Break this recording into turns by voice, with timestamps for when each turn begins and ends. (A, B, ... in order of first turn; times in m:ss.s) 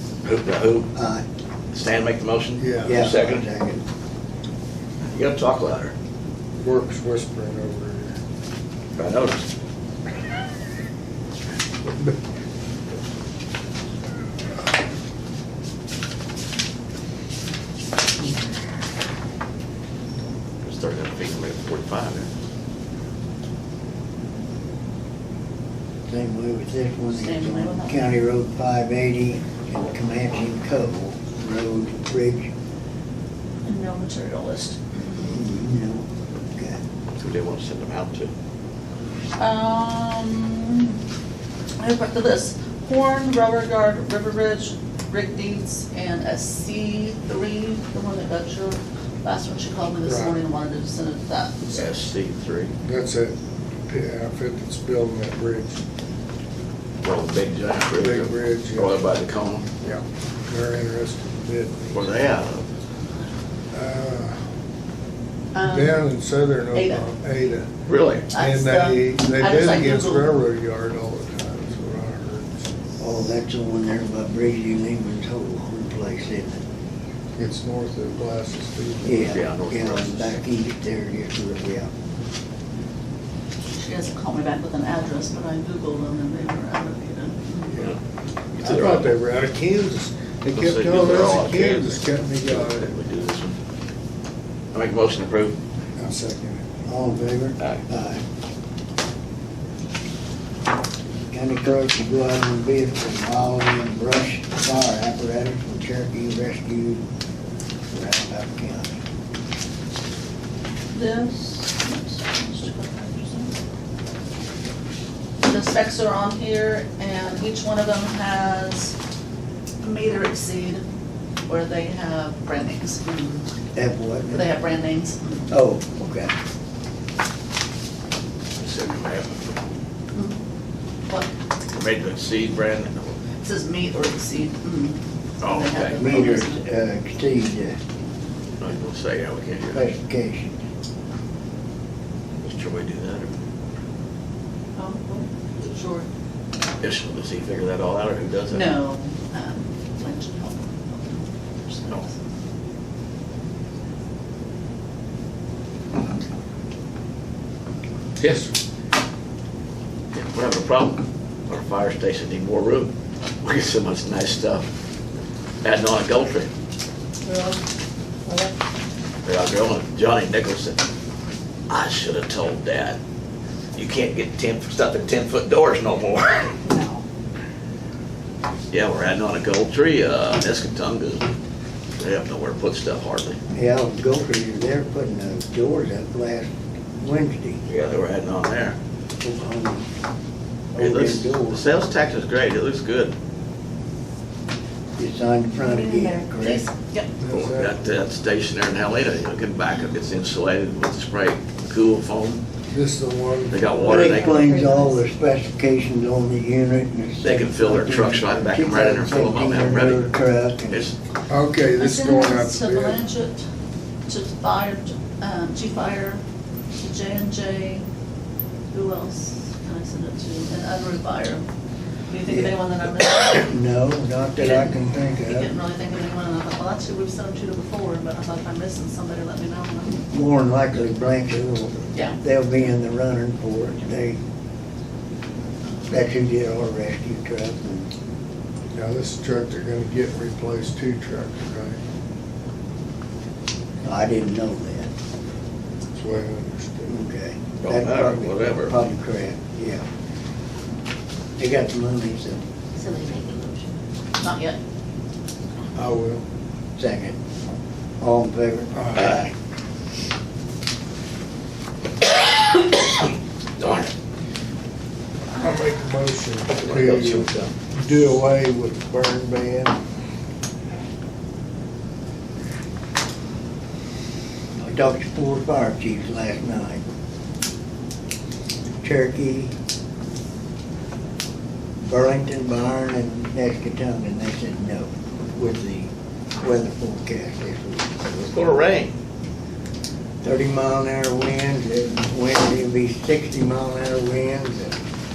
0:00.2-0:00.9 A
0:00.9-0:01.2 B
0:01.7-0:03.4 A
0:02.6-0:03.1 C
0:02.8-0:03.8 B
0:05.1-0:05.9 A
0:06.6-0:08.2 C
0:09.0-0:09.5 A
0:20.6-0:22.3 A
0:26.1-0:32.5 B
0:27.1-0:28.1 D
0:33.6-0:35.4 D
0:35.2-0:36.8 B
0:37.2-0:38.3 A
0:39.4-0:41.0 D
0:41.8-0:51.9 D
0:50.0-0:50.4 C
0:51.7-0:52.7 A
0:52.8-0:53.4 C
0:53.9-0:55.8 C
0:57.0-0:59.7 A
0:58.0-0:59.0 C
0:59.8-1:02.4 C
1:01.9-1:02.7 A
1:03.7-1:04.4 C
1:05.5-1:06.0 D
1:05.6-1:07.7 C
1:06.7-1:07.0 D
1:07.9-1:08.3 A
1:08.3-1:10.3 D
1:08.3-1:12.6 C
1:13.0-1:16.6 B
1:17.4-1:19.3 C
1:19.0-1:21.9 B
1:19.2-1:20.4 A
1:23.8-1:27.8 D
1:27.7-1:28.0 C
1:28.6-1:29.2 A
1:28.6-1:32.9 C
1:30.5-1:33.6 A
1:34.7-1:35.6 A
1:36.0-1:36.8 C
1:36.8-1:38.2 B
1:41.3-1:47.0 B
1:47.9-1:49.0 B
1:50.9-1:53.5 D
1:55.4-1:59.0 D
1:59.8-2:00.8 D
2:01.5-2:03.5 D
2:03.8-2:04.5 B
2:04.3-2:05.5 D
2:05.5-2:06.3 B
2:08.6-2:09.7 A
2:11.7-2:13.2 A
2:13.4-2:16.6 D
2:15.4-2:16.0 A
2:16.0-2:17.8 B
2:18.6-2:19.9 A
2:19.7-2:20.6 B
2:22.4-2:23.3 A
2:24.8-2:26.1 D
2:26.8-2:28.7 A
2:28.5-2:32.2 D
2:38.2-2:38.5 C
2:40.1-2:44.7 A
2:45.6-2:46.5 A
2:47.2-2:47.6 D
2:48.3-2:48.5 D
2:49.2-2:50.8 A
2:51.7-2:53.0 A
2:53.8-2:56.6 A
2:56.6-2:57.0 D
2:58.7-3:01.3 A
3:02.0-3:03.4 A
3:03.5-3:07.6 B
3:07.7-3:08.8 A
3:09.2-3:09.9 B
3:10.7-3:11.7 B
3:10.8-3:13.1 A
3:15.0-3:16.7 B
3:15.6-3:17.1 D
3:17.2-3:17.8 C
3:17.3-3:22.4 A
3:22.7-3:24.1 C
3:23.5-3:24.5 A
3:23.8-3:30.9 B
3:24.2-3:25.0 D
3:27.2-3:30.1 A
3:30.7-3:30.9 A
3:31.3-3:33.0 C
3:31.8-3:33.4 D
3:34.1-3:36.2 D
3:36.8-3:37.8 D
3:38.7-3:41.5 D
3:42.1-3:43.5 D
3:42.3-3:42.6 B
3:43.2-3:45.5 B
3:44.4-3:50.0 D
3:50.0-3:54.2 B
3:51.9-3:52.2 D
3:55.9-3:57.9 B
3:58.7-4:01.8 C
4:03.8-4:04.9 B
4:05.9-4:07.0 C
4:06.9-4:09.8 B
4:07.6-4:08.8 A
4:11.4-4:12.4 B
4:12.8-4:14.6 D
4:15.7-4:16.2 C
4:16.8-4:17.2 B
4:18.0-4:19.3 B
4:18.7-4:19.1 C
4:19.0-4:19.3 A
4:23.6-4:23.9 A
4:25.4-4:29.8 C
4:26.6-4:27.5 A
4:34.6-4:36.8 B
4:38.8-4:39.5 B
4:41.8-4:48.0 B
4:48.0-4:49.0 A
4:50.2-4:54.8 B